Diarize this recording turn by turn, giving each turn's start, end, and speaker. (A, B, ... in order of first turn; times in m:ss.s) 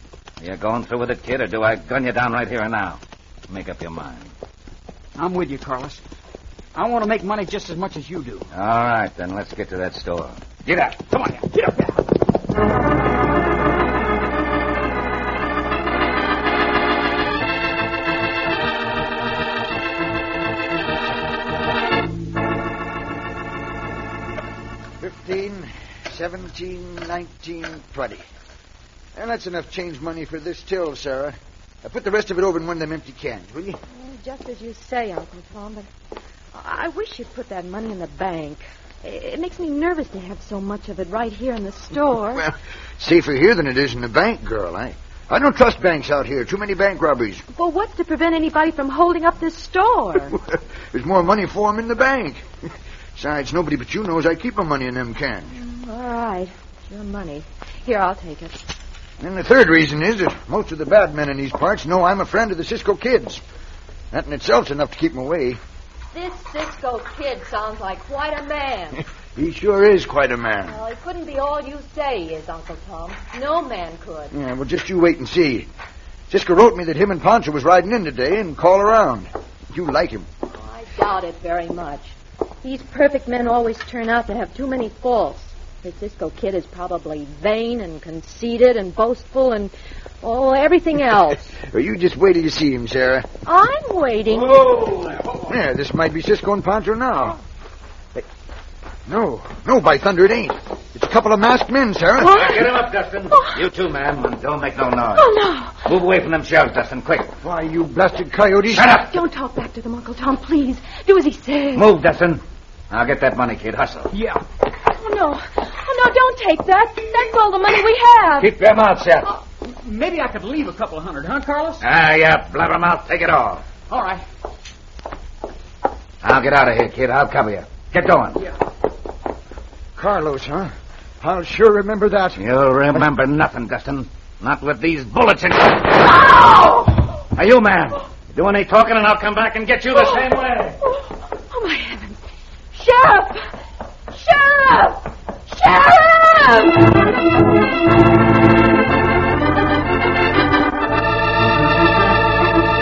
0:00.4-0:04.3 A
0:05.2-0:06.0 B
0:06.7-0:08.4 B
0:08.5-0:11.1 A
0:11.1-0:12.0 B
0:25.0-0:28.2 C
0:29.2-0:33.8 C
0:33.9-0:35.9 D
0:36.5-0:42.4 D
0:42.4-0:47.4 C
0:47.5-0:50.4 D
0:50.9-0:52.4 C
0:53.2-0:55.5 C
0:55.5-0:58.6 D
0:59.2-1:03.4 C
1:04.1-1:05.6 C
1:06.1-1:09.0 D
1:09.4-1:10.8 C
1:10.6-1:14.3 D
1:14.3-1:15.7 C
1:16.3-1:20.3 C
1:20.6-1:31.5 D
1:31.7-1:33.2 C
1:33.4-1:34.7 D
1:35.5-1:37.4 C
1:39.1-1:42.4 C
1:42.2-1:42.8 D
1:42.3-1:45.3 A
1:43.3-1:43.6 D
1:45.2-1:45.7 D
1:45.8-1:47.3 A
1:47.4-1:49.1 C
1:48.7-1:51.8 D
1:51.7-1:54.1 A
1:54.1-1:54.4 B
1:54.9-1:58.5 D
1:58.4-1:59.3 A
1:59.6-2:01.8 B
2:01.8-2:03.6 A
2:03.9-2:04.2 B
2:06.2-2:08.4 A
2:10.0-2:12.4 C
2:12.4-2:16.0 A
2:16.2-2:16.9 D
2:17.3-2:20.8 A
2:19.9-2:20.2 D
2:20.8-2:22.2 D
2:22.7-2:23.4 D
2:24.1-2:26.9 D